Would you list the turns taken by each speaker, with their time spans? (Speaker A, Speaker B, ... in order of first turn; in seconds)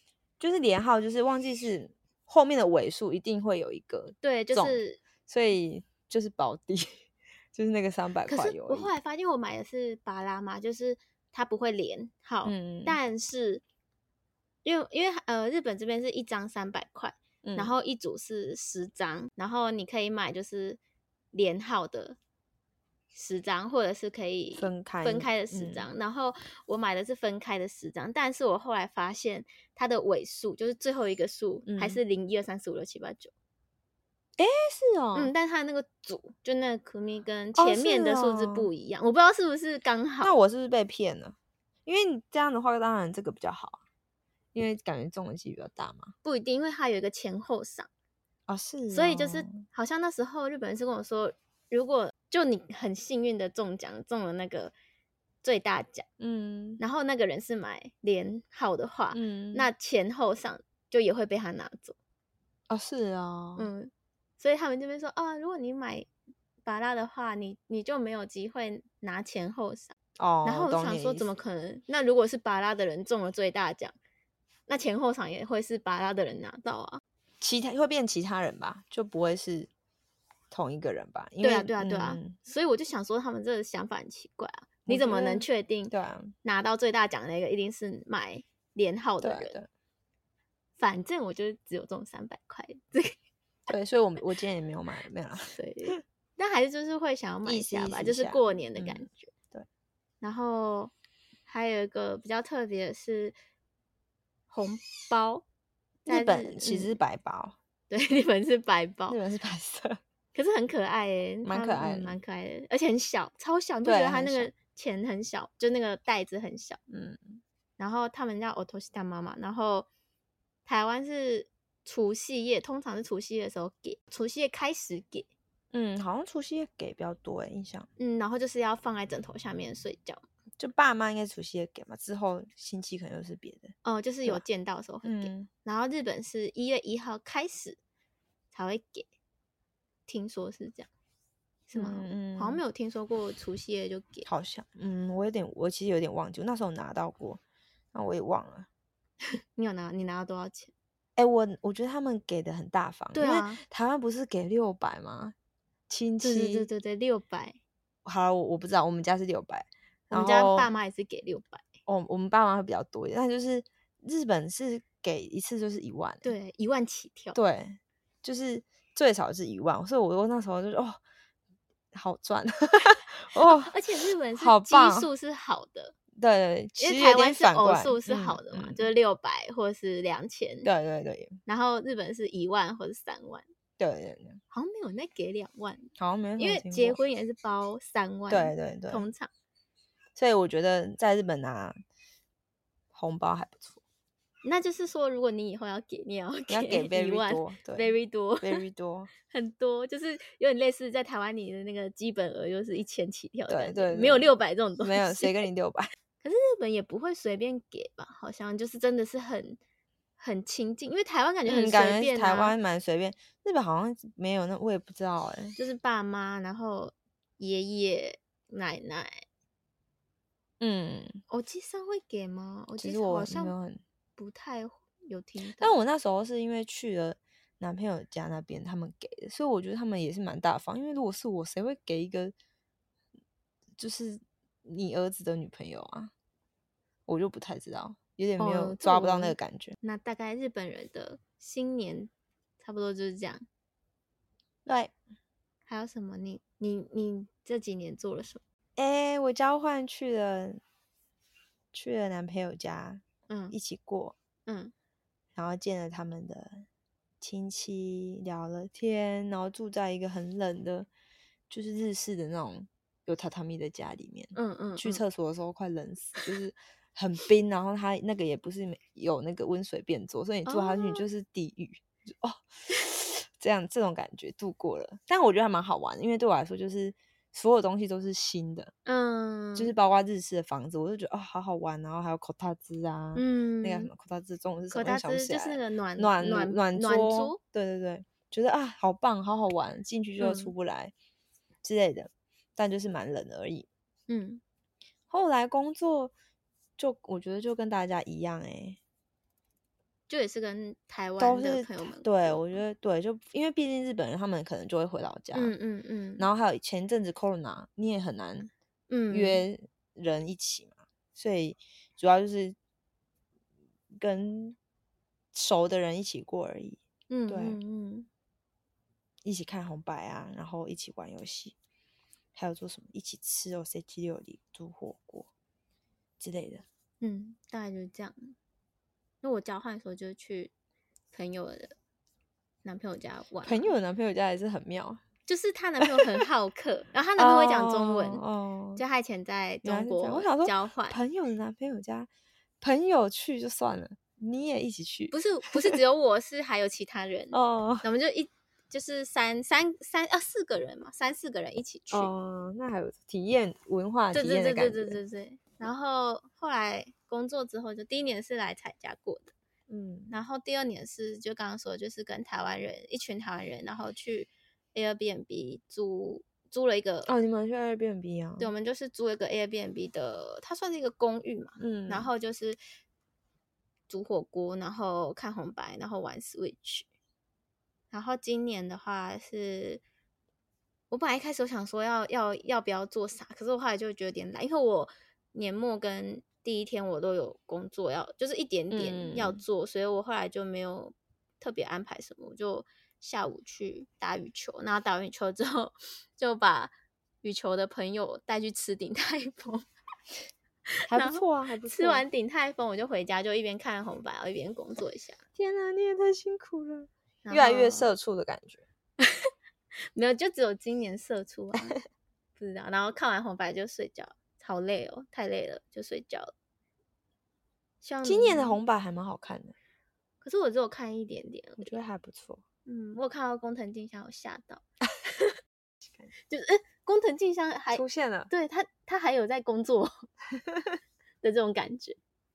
Speaker A: 0.4-7.0, 7.5-8.9, 12.4-13.0, 17.4-17.7, 24.6-25.9, 31.6-32.0, 34.4-35.3, 37.5-38.7, 40.2-43.8, 44.5-46.1, 48.5-49.6, 56.2-56.8, 59.1-59.7, 62.7-63.7, 70.2-71.3, 77.4-79.7, 80.5-82.3, 84.9-86.3, 89.2-89.7, 93.7-96.0, 97.4-99.7, 106.1-107.5, 109.1-110.0, 111.4-112.2, 113.8-114.5, 116.9-117.4, 125.7-127.9, 130.6-133.7, 135.0-135.5, 141.7-142.6, 144.2-147.4, 147.9-148.7, 151.2-155.3, 155.9-156.7, 158.0-160.7, 161.8-166.3, 167.3-171.0, 171.9-173.7, 174.3-175.1, 176.2-178.9, 180.6-181.4, 183.8-184.4, 186.0-187.0, 188.3-189.1, 190.1-191.8, 192.9-193.8, 196.5-199.1, 203.5-205.9, 211.4-215.6, 220.6-221.2, 222.8-223.8, 225.6-232.3, 233.8-236.1, 237.1-239.8, 244.7-244.9, 248.8-250.6, 251.7-254.1, 255.3-256.6, 257.2-260.9, 261.5-278.7, 279.5-290.9, 291.6-293.7, 295.1-296.1, 296.8-298.8, 301.2-305.5, 306.2-308.5, 309.1-312.6, 313.9-314.6, 315.3-317.6, 319.2-321.6, 322.3-325.3, 326.2-326.6, 333.4-335.0, 335.8-336.2, 337.2-338.8, 339.6-342.1, 342.6-345.8, 347.3-347.8, 351.9-355.0, 359.7-360.1, 367.1-368.5, 371.6-372.1, 388.7-389.4, 400.8-402.0, 405.4-408.6, 418.0-419.5, 421.6-422.4, 425.8-426.1, 427.7-428.3
Speaker B: 4.2-5.0, 8.2-13.6, 14.6-20.8, 21.3-22.2, 23.1-33.3, 35.1-40.4, 46.2-47.9, 48.9-54.7, 55.4-56.0, 56.8-62.0, 63.6-66.1, 66.6-73.9, 74.7-77.0, 81.4-85.9, 86.4-89.6, 90.8-93.2, 95.5-99.3, 100.2-100.9, 101.5-103.3, 104.5-105.4, 106.0-107.0, 107.9-109.2, 110.3-116.8, 117.8-119.9, 120.7-125.3, 128.0-130.2, 133.8-137.8, 138.5-139.1, 140.1-140.9, 141.7-144.3, 149.6-150.7, 153.1-153.6, 156.2-157.6, 160.1-161.6, 166.2-167.4, 173.4-175.9, 176.8-180.7, 181.4-183.4, 184.5-189.3, 194.4-198.6, 199.3-205.4, 206.2-209.6, 210.2-212.6, 215.6-219.2, 221.3-223.5, 224.2-225.8, 238.4-243.4, 245.7-248.4, 253.3-253.6, 254.5-254.7, 264.3-265.0, 270.4-271.1, 278.9-279.7, 283.1-283.9, 284.7-287.4, 290.2-290.5, 294.1-294.4, 300.1-302.6, 305.3-306.3, 308.9-309.4, 317.1-318.1, 327.0-328.3, 329.2-330.5, 331.1-331.7, 332.6-333.7, 335.2-338.2, 338.8-341.0, 345.1-352.1, 354.1-359.3, 360.1-367.1, 368.4-372.6, 373.9-376.9, 377.9-379.8, 380.9-399.6, 400.8-405.2, 407.2-407.9, 409.0-409.3, 409.9-411.8, 412.4-416.3, 417.8-418.6, 420.2-421.8, 422.6-425.3, 426.3-430.1, 431.2-432.0